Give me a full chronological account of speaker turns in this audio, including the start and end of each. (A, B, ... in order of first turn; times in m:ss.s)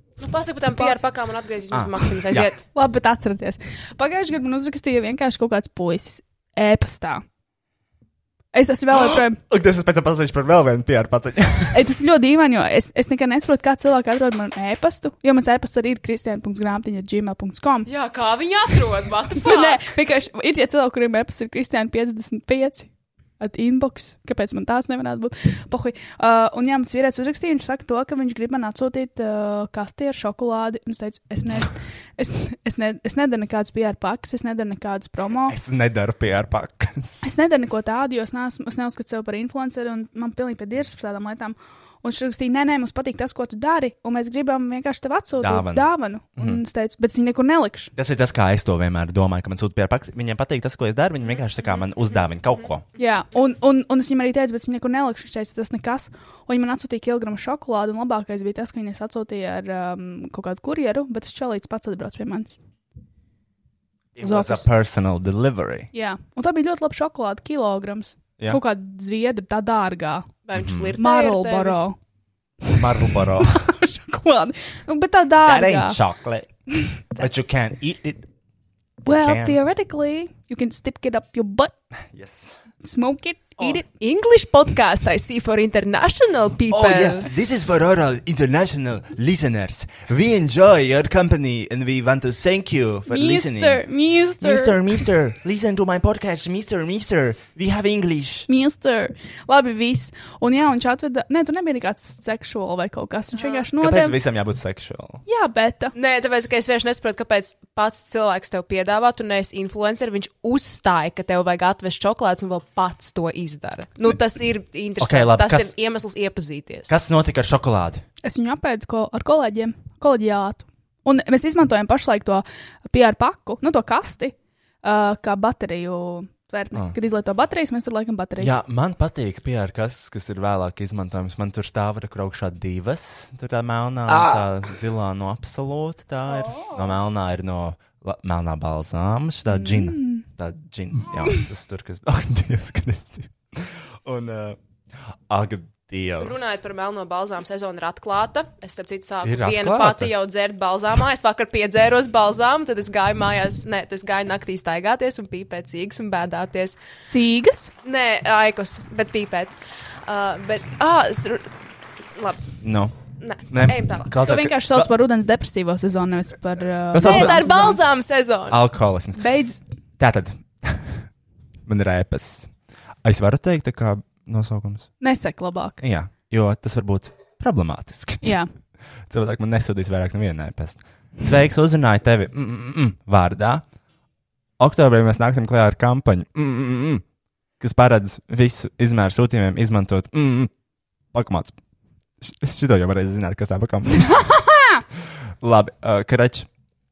0:00.2-0:02.6 A
0:01.7-0:02.5 B
0:02.7-0:07.2 C
0:08.5-0:09.4 C
0:09.0-0:11.8 B
0:11.7-0:17.9 C
0:17.8-0:19.9 A
0:19.4-0:35.5 C
0:35.5-0:37.3 B
0:37.2-0:47.9 C
0:45.4-0:46.6 B
0:48.0-0:52.8 B
0:51.6-0:52.2 A
0:53.0-1:02.6 C
1:04.2-1:05.9 B
1:04.2-1:04.6 C
1:05.9-1:10.3 C
1:10.4-1:11.8 A
1:10.5-1:10.9 B
1:11.0-1:12.0 C
1:12.7-1:13.6 B
1:13.5-1:16.0 C
1:15.4-1:16.5 B
1:16.8-1:17.3 C
1:17.2-1:18.3 B
1:19.0-1:19.6 B
1:19.0-1:21.7 C
1:22.1-1:22.6 B
1:22.8-1:23.8 C
1:23.6-1:27.3 A
1:26.7-1:33.8 B
1:33.1-1:35.0 C
1:34.4-1:38.5 B
1:38.5-1:44.2 C
1:43.4-1:43.6 A
1:43.8-1:45.2 B
1:45.3-1:45.9 C
1:45.9-1:56.9 A
1:55.0-1:55.7 B
1:56.9-1:58.0 B
1:58.2-2:08.6 C
2:08.4-2:24.6 B
2:19.5-2:20.2 C
2:25.3-2:26.6 B
2:26.2-2:36.8 A
2:29.2-2:30.1 B
2:37.0-2:37.7 C
2:37.8-2:41.5 A
2:42.1-2:42.6 A
2:42.6-2:43.0 B
2:43.1-2:44.2 A
2:43.5-2:44.9 B
2:44.2-2:47.8 C
2:46.9-2:47.7 B
2:47.0-2:48.6 A
2:48.5-2:49.3 B
2:49.2-2:49.6 C
2:50.0-2:51.1 B
2:51.6-2:54.9 B
2:55.0-2:55.8 C
2:55.8-2:58.3 B
2:58.2-2:58.5 C
2:59.1-3:03.6 B
3:04.6-3:07.0 B
3:07.6-3:10.5 B
3:11.1-3:11.6 B
3:12.2-3:14.3 B
3:14.2-3:14.8 C
3:15.4-3:16.5 B